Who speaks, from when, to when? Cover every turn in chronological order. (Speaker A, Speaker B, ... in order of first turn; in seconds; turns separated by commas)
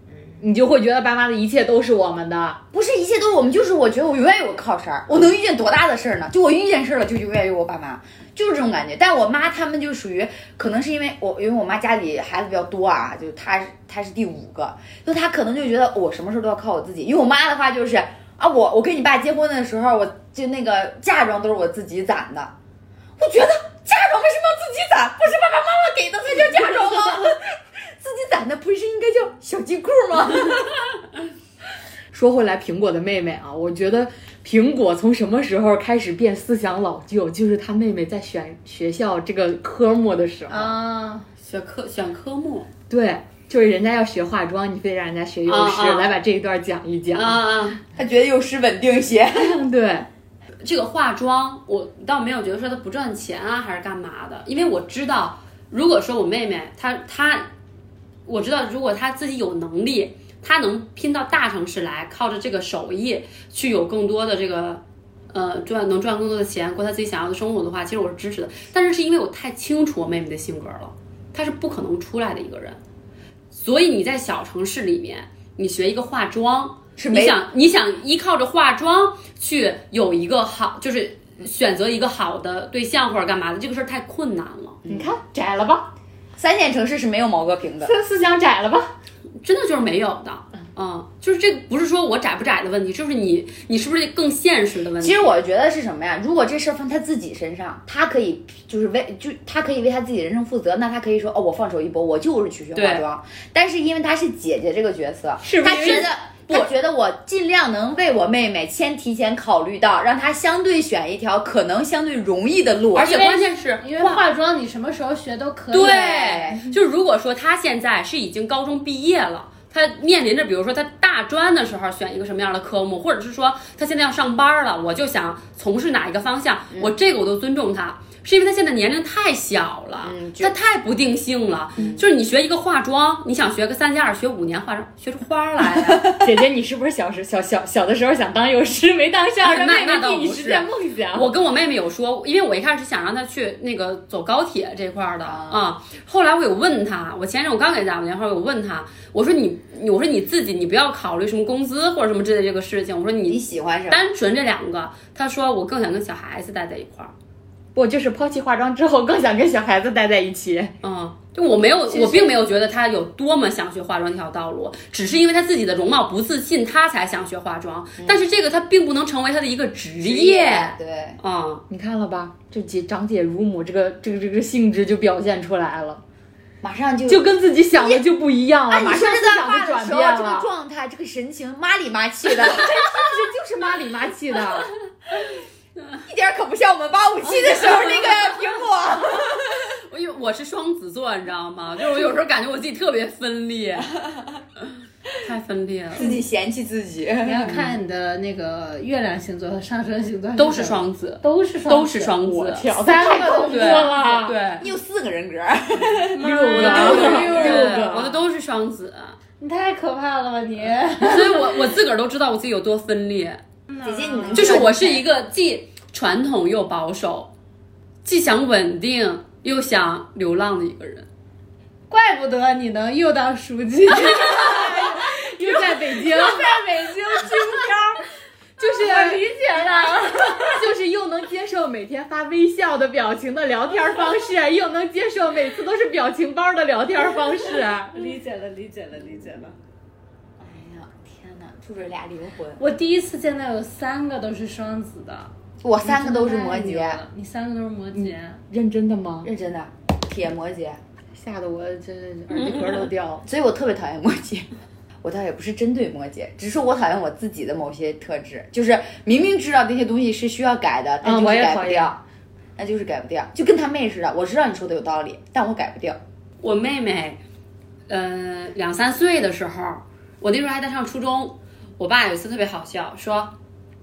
Speaker A: 0.4-2.6, Speaker B: 2.7-22.5, Speaker B: 23.2-30.9, Speaker A: 32.1-40.8, Speaker C: 40.5-41.3, Speaker D: 41.4-42.7, Speaker A: 42.9-47.4, Speaker D: 45.5-46.1, Speaker D: 47.1-47.8, Speaker B: 47.9-49.6, Speaker A: 49.4-50.1, Speaker D: 50.6-57.5, Speaker D: 58.2-72.8, Speaker D: 73.5-84.8, Speaker B: 77.0-77.4, Speaker B: 84.8-85.1, Speaker A: 84.9-85.9, Speaker B: 86.4-87.9, Speaker A: 87.8-88.9, Speaker D: 89.4-95.3, Speaker B: 95.0-113.2, Speaker D: 102.7-103.0, Speaker A: 105.4-106.0, Speaker D: 105.7-106.0, Speaker D: 112.9-114.2, Speaker C: 113.0-116.4, Speaker D: 115.7-136.1, Speaker B: 115.8-116.7, Speaker B: 130.0-130.5, Speaker B: 131.8-132.0, Speaker A: 136.1-141.3, Speaker D: 139.4-157.1, Speaker B: 145.2-145.7, Speaker B: 153.2-154.0, Speaker A: 157.7-160.7, Speaker D: 160.8-171.6, Speaker B: 168.0-168.2, Speaker B: 170.0-171.2, Speaker A: 171.7-176.0, Speaker B: 176.6-178.1, Speaker A: 177.1-180.5, Speaker B: 178.7-183.3, Speaker A: 182.7-184.7, Speaker B: 186.0-189.7, Speaker D: 189.9-193.9, Speaker D: 195.2-196.2, Speaker B: 195.9-197.6, Speaker C: 197.2-204.3, Speaker D: 200.3-202.7, Speaker A: 202.4-204.3, Speaker D: 203.4-204.7, Speaker B: 204.6-207.6, Speaker C: 206.0-207.9, Speaker A: 206.1-208.2, Speaker D: 206.5-209.2, Speaker C: 209.4-211.6, Speaker D: 211.0-213.4, Speaker C: 213.7-214.7, Speaker B: 213.8-215.1, Speaker D: 214.3-217.3, Speaker D: 218.0-221.1, Speaker C: 221.9-228.0, Speaker A: 224.1-227.7, Speaker A: 228.6-238.1, Speaker C: 228.6-230.7, Speaker C: 237.9-239.6, Speaker B: 240.4-242.6, Speaker C: 242.6-245.3, Speaker B: 245.6-247.0, Speaker C: 245.8-248.4, Speaker A: 247.9-249.3, Speaker B: 249.2-250.8, Speaker A: 251.1-253.2, Speaker B: 253.2-254.5, Speaker B: 255.0-262.0, Speaker A: 261.0-261.9, Speaker B: 262.6-266.0, Speaker D: 266.4-267.2, Speaker D: 267.9-273.3